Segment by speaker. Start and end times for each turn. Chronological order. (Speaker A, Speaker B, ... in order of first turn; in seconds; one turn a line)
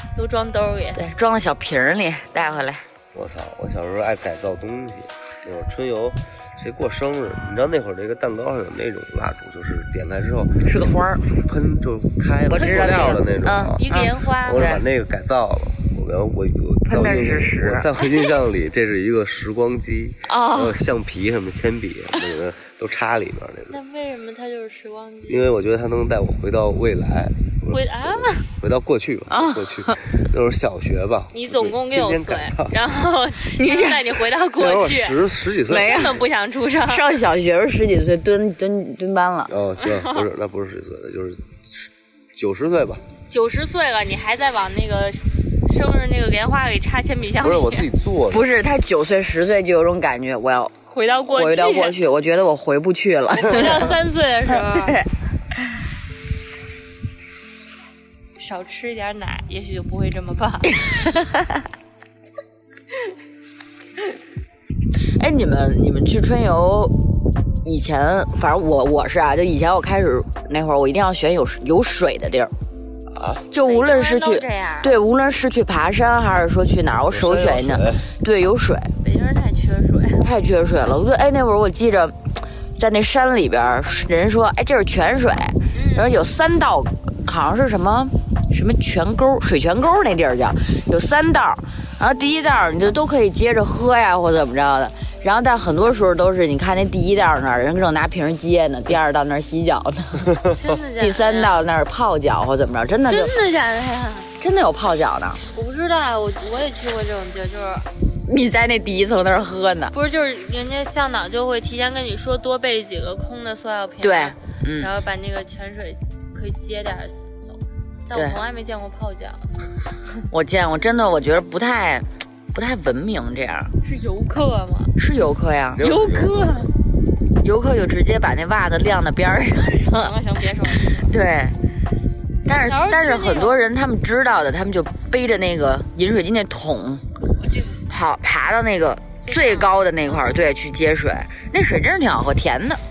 Speaker A: 0.1-1.0
Speaker B: 0.9-2.8
Speaker C: 3.1-13.8
Speaker B: 10.6-11.2
Speaker B: 12.5-14.8
Speaker A: 12.6-13.2
Speaker A: 13.8-14.7
Speaker C: 14.4-23.8
Speaker B: 16.9-17.9
Speaker B: 20.3-20.8
Speaker A: 23.7-25.5
Speaker C: 25.3-32.8
Speaker A: 27.7-28.4
Speaker B: 29.3-30.0
Speaker A: 31.3-35.2
Speaker B: 33.4-34.1
Speaker C: 34.5-36.1
Speaker B: 35.7-36.2
Speaker A: 35.7-37.1
Speaker B: 36.8-39.5
Speaker C: 39.5-43.0
Speaker A: 39.8-40.2
Speaker A: 43.3-47.9
Speaker C: 47.4-48.5
Speaker B: 48.3-50.7
Speaker A: 50.9-52.0
Speaker B: 51.2-53.9
Speaker A: 53.3-55.0
Speaker B: 54.5-55.0
Speaker A: 58.4-60.8
Speaker B: 60.8-61.6
Speaker B: 65.2-66.9
Speaker B: 67.6-72.5
Speaker C: 73.1-73.4
Speaker B: 73.5-78.9
Speaker A: 73.6-75.0
Speaker C: 77.1-78.1
Speaker A: 79.0-80.3
Speaker B: 80.2-82.2
Speaker B: 82.8-100.3
Speaker A: 85.7-86.1
Speaker A: 100.5-101.6
Speaker B: 101.0-103.3
Speaker A: 103.1-104.3
Speaker B: 104.4-105.4
Speaker A: 105.5-107.9
Speaker B: 108.2-109.9
Speaker A: 109.9-119.5
Speaker B: 114.0-114.9
Speaker B: 118.1-118.4
Speaker B: 120.3-123.7
Speaker A: 123.8-125.0
Speaker B: 125.0-125.8
Speaker C: 125.8-126.7
Speaker A: 125.8-126.7
Speaker B: 127.4-130.1
Speaker A: 129.8-131.1
Speaker B: 131.0-131.6
Speaker B: 132.4-137.0
Speaker A: 132.5-133.6
Speaker A: 137.4-137.8
Speaker B: 137.9-142.8
Speaker A: 139.2-140.5